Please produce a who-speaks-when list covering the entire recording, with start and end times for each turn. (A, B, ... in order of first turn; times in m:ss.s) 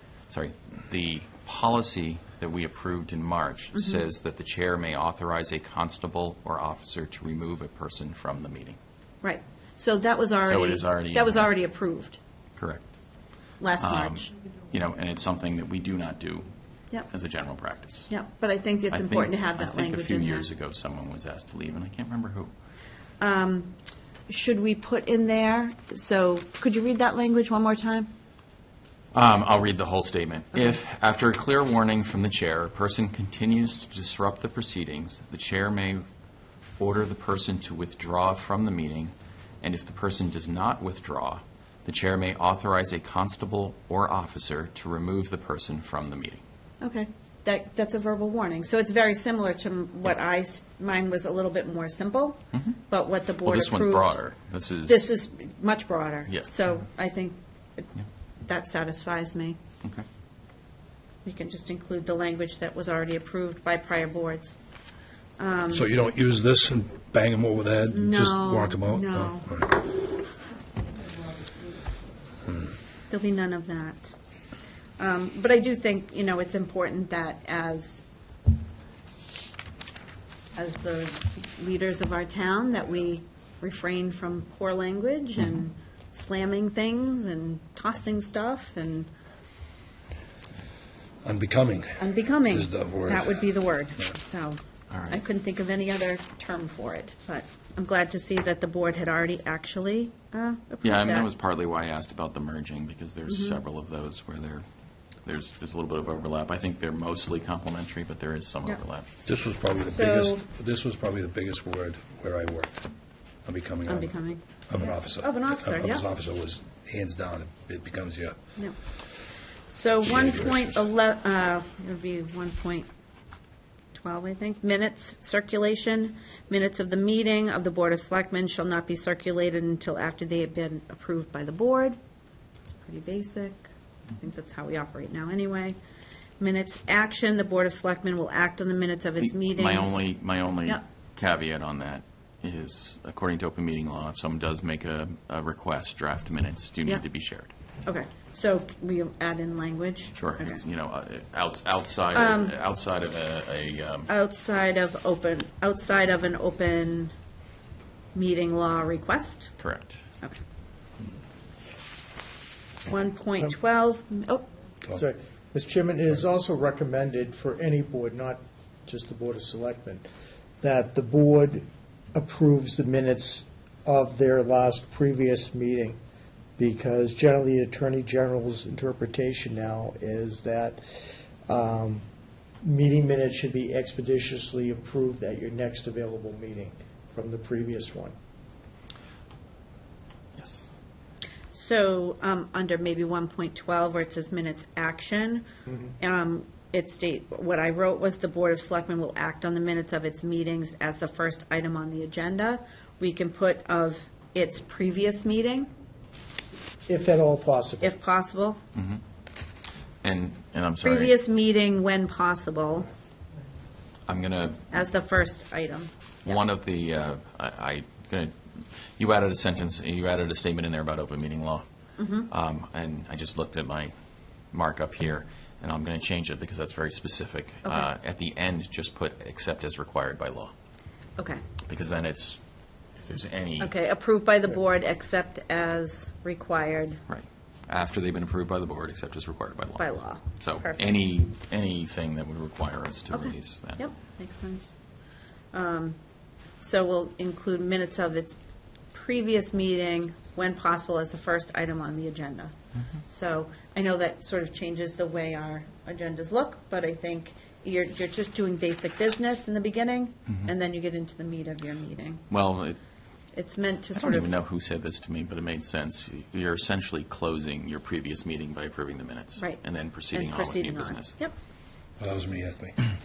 0:00.3-0:08.8 A
0:09.2-0:12.2 B
0:10.4-0:11.5 A
0:12.6-0:12.9 A
0:13.6-0:14.3 B
0:13.8-0:16.5 A
0:17.1-0:18.1 A
0:18.1-0:20.5 B
0:18.9-0:22.5 A
0:23.2-0:23.7 B
0:24.3-0:28.1 B
0:29.1-0:36.0 A
0:36.8-0:46.4 A
0:46.8-0:54.2 B
0:53.4-0:55.1 A
0:54.9-0:57.9 B
0:56.3-0:56.6 A
0:58.5-0:59.6 B
1:01.2-1:04.6 B
1:05.4-1:05.9 B
1:05.7-1:09.8 C
1:07.9-1:09.6 B
1:13.1-1:14.1 B
1:15.0-1:18.0 B
1:20.6-1:29.1 B
1:31.2-1:33.4 C
1:32.0-1:34.6 B
1:34.9-1:35.2 A
1:35.1-1:41.3 B
1:40.8-1:44.6 A
1:43.3-1:43.6 B
1:45.2-1:49.1 A
1:49.3-1:52.9 C
1:49.8-1:50.4 B
1:53.4-1:58.4 C
1:53.9-1:56.0 B
1:59.7-2:02.9 B
2:00.0-2:00.8 C
2:03.9-2:12.0 B
2:12.7-2:15.8 B
2:16.4-2:20.0 B
2:19.2-2:27.5 A
2:27.8-2:30.6 B
2:30.1-2:34.1 A
2:32.2-2:32.6 B
2:34.1-2:37.1 B
2:38.2-2:39.5 B
2:39.6-2:40.0 A
2:42.9-2:44.4 B
2:44.9-2:50.0 D
2:50.6-2:56.0 D
2:56.6-3:00.8 D
3:01.5-3:02.0 D
3:02.6-3:08.2 D
3:10.4-3:10.6 A
3:11.5-3:15.5 B
3:16.0-3:25.7 B
3:26.9-3:27.9 D
3:27.8-3:28.6 B
3:28.8-3:29.0 A
3:30.0-3:31.1 A
3:30.8-3:32.9 B
3:34.1-3:34.7 A
3:34.7-3:35.9 B
3:36.2-3:41.6 A
3:42.0-3:42.3 B
3:42.3-3:43.9 A
3:44.5-3:50.5 A
3:51.7-3:52.4 A
3:53.0-3:53.7 A
3:53.6-3:57.0 B
3:57.1-4:03.9 A
3:59.8-4:00.9 B
4:03.1-4:04.7 B
4:05.5-4:06.0 B
4:06.6-4:08.4 B
4:08.9-4:12.5 B
4:13.1-4:22.2 B
4:22.3-4:22.8 A
4:23.3-4:24.3 B
4:24.0-4:31.2 A
4:29.4-4:31.3 B
4:32.0-4:32.8 C